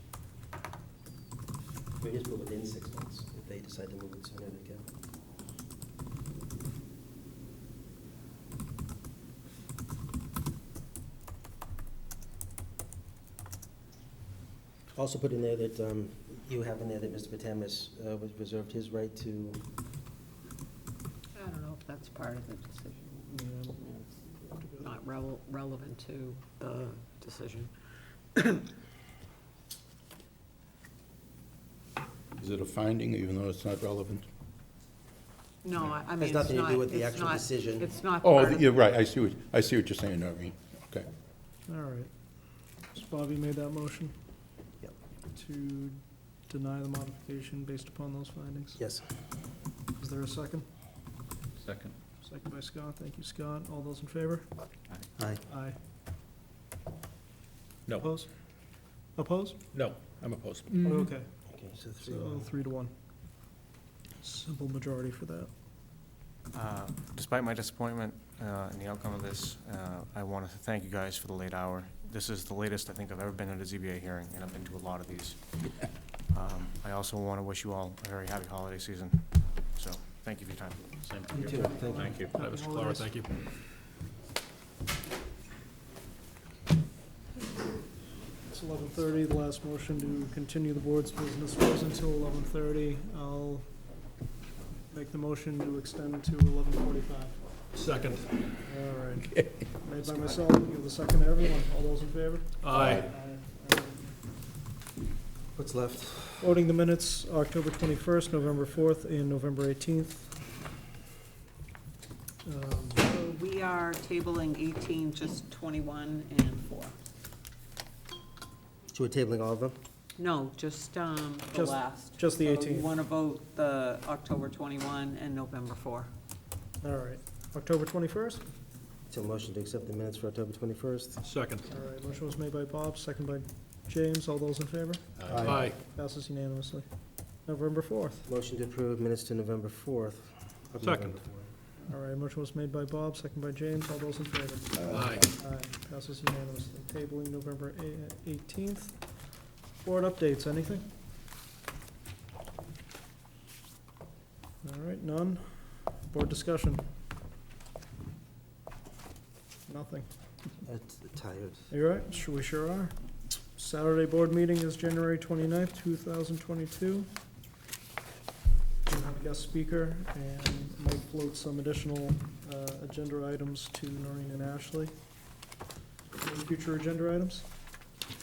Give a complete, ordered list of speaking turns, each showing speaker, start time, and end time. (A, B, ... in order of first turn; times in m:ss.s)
0:02.0-0:04.9 A
0:15.0-0:19.6 A
0:21.4-0:24.2 B
0:23.3-0:23.8 C
0:24.4-0:24.9 C
0:24.7-0:27.7 B
0:28.3-0:28.7 B
0:32.3-0:34.3 D
0:35.6-0:38.7 B
0:36.2-0:37.9 A
0:38.2-0:41.1 D
0:41.7-0:42.1 C
0:42.8-0:44.1 C
0:45.4-0:48.8 C
0:48.8-0:49.0 A
0:50.0-0:50.7 C
0:52.2-0:54.5 C
0:55.2-0:55.5 A
0:55.5-0:55.8 C
0:58.0-0:58.3 C
0:59.2-0:59.6 C
0:59.7-1:01.0 E
1:00.8-1:01.4 C
1:01.5-1:02.5 A
1:02.0-1:02.9 C
1:04.2-1:05.5 C
1:06.5-1:21.4 F
1:21.1-1:23.3 E
1:21.3-1:22.1 A
1:21.4-1:23.1 C
1:28.5-1:33.7 C
1:34.9-1:37.6 C
1:37.7-1:38.5 E
1:38.6-1:44.1 C
1:40.0-1:40.5 A
1:42.6-1:43.1 E
1:45.6-1:46.5 A
1:46.4-1:50.4 C
1:52.4-1:53.0 C
1:53.0-1:56.9 B
1:58.9-1:59.8 A
2:00.2-2:06.1 B
2:01.5-2:02.9 C
2:06.8-2:08.4 C
2:09.1-2:11.2 A
2:11.2-2:11.7 E
2:11.7-2:18.3 C
2:15.3-2:15.7 A
2:15.4-2:15.8 E
2:18.2-2:21.5 A
2:20.8-2:21.2 E
2:21.8-2:30.9 C
2:24.9-2:25.3 E
2:34.6-2:36.8 C
2:39.7-2:40.1 C
2:40.6-2:41.7 A
2:41.7-2:43.0 C
2:43.6-2:47.1 C
2:48.9-2:54.9 C
2:56.2-2:57.5 C